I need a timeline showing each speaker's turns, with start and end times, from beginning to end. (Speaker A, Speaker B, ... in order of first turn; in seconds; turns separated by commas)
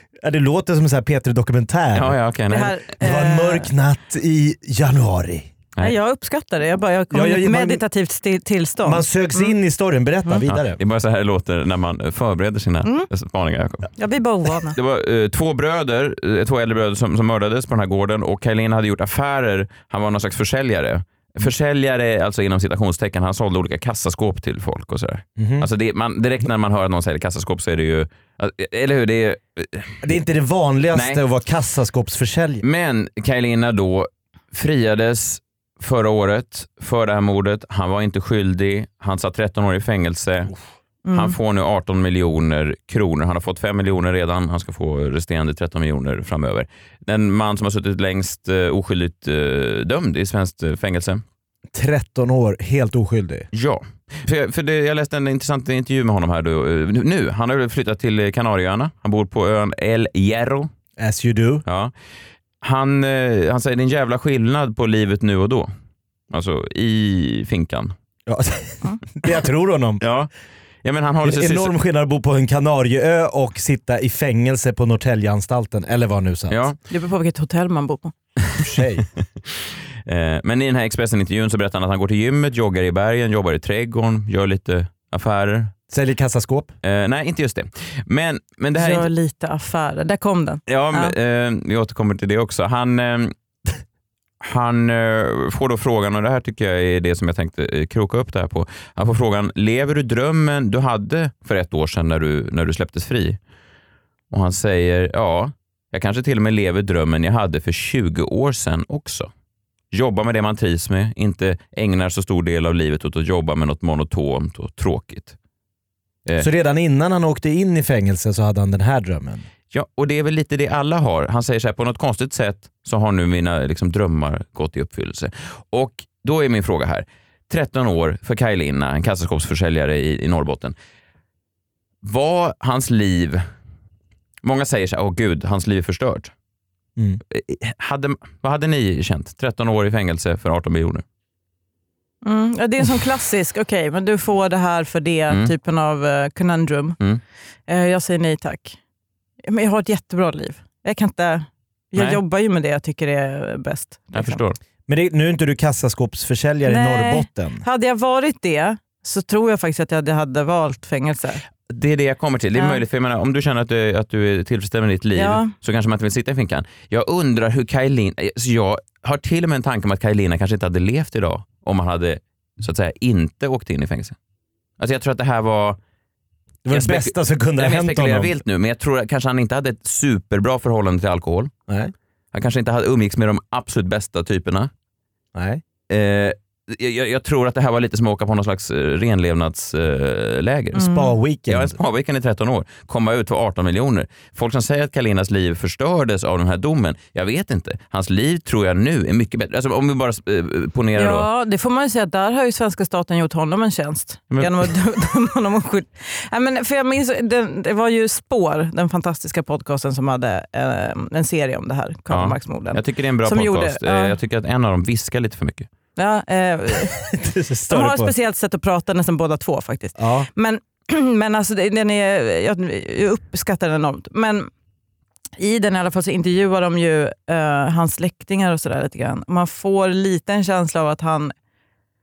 Speaker A: 0.2-2.1, Speaker B: 1.9-2.8, Speaker C: 2.5-3.7, Speaker A: 3.0-5.5, Speaker C: 5.8-9.5, Speaker A: 7.1-7.8, Speaker A: 8.8-10.8, Speaker B: 10.5-13.9, Speaker C: 14.0-14.8, Speaker B: 14.8-30.2, Speaker A: 25.4-25.7, Speaker A: 30.0-32.6, Speaker B: 30.9-31.2, Speaker B: 32.6-40.5, Speaker C: 41.0-41.4, Speaker B: 41.1-51.2, Speaker A: 51.7-53.5, Speaker B: 53.5-60.7, Speaker A: 61.0-61.6, Speaker B: 61.6-61.9, Speaker B: 62.6-65.7, Speaker B: 66.3-67.9, Speaker A: 68.3-70.0, Speaker B: 70.0-70.3, Speaker B: 70.8-71.7, Speaker A: 71.2-76.6, Speaker B: 76.5-76.8, Speaker C: 76.9-78.1, Speaker A: 78.6-79.1, Speaker B: 79.5-85.7, Speaker A: 85.9-86.7, Speaker B: 86.8-89.1, Speaker C: 88.8-91.2, Speaker B: 90.7-93.3, Speaker B: 94.4-103.4, Speaker B: 104.3-109.3, Speaker B: 109.9-115.3, Speaker A: 116.4-119.4, Speaker B: 119.7-130.8, Speaker B: 132.0-133.4, Speaker B: 134.4-136.3, Speaker B: 137.3-141.0, Speaker C: 142.2-147.0, Speaker C: 147.7-148.8, Speaker C: 149.5-154.4, Speaker B: 154.1-154.6, Speaker A: 154.9-157.6, Speaker C: 156.7-161.4, Speaker B: 161.7-174.2, Speaker C: 162.5-162.8, Speaker C: 165.1-165.5, Speaker B: 174.8-175.8, Speaker A: 176.6-178.4, Speaker B: 176.7-181.5, Speaker B: 182.3-184.7, Speaker A: 185.3-185.6, Speaker B: 185.9-190.9, Speaker A: 190.8-191.8, Speaker C: 190.8-191.1, Speaker B: 191.5-201.3, Speaker C: 200.9-214.1, Speaker B: 212.1-215.7, Speaker C: 215.9-217.1, Speaker A: 217.1-218.1, Speaker C: 217.7-224.5, Speaker A: 220.0-220.3, Speaker C: 225.4-231.3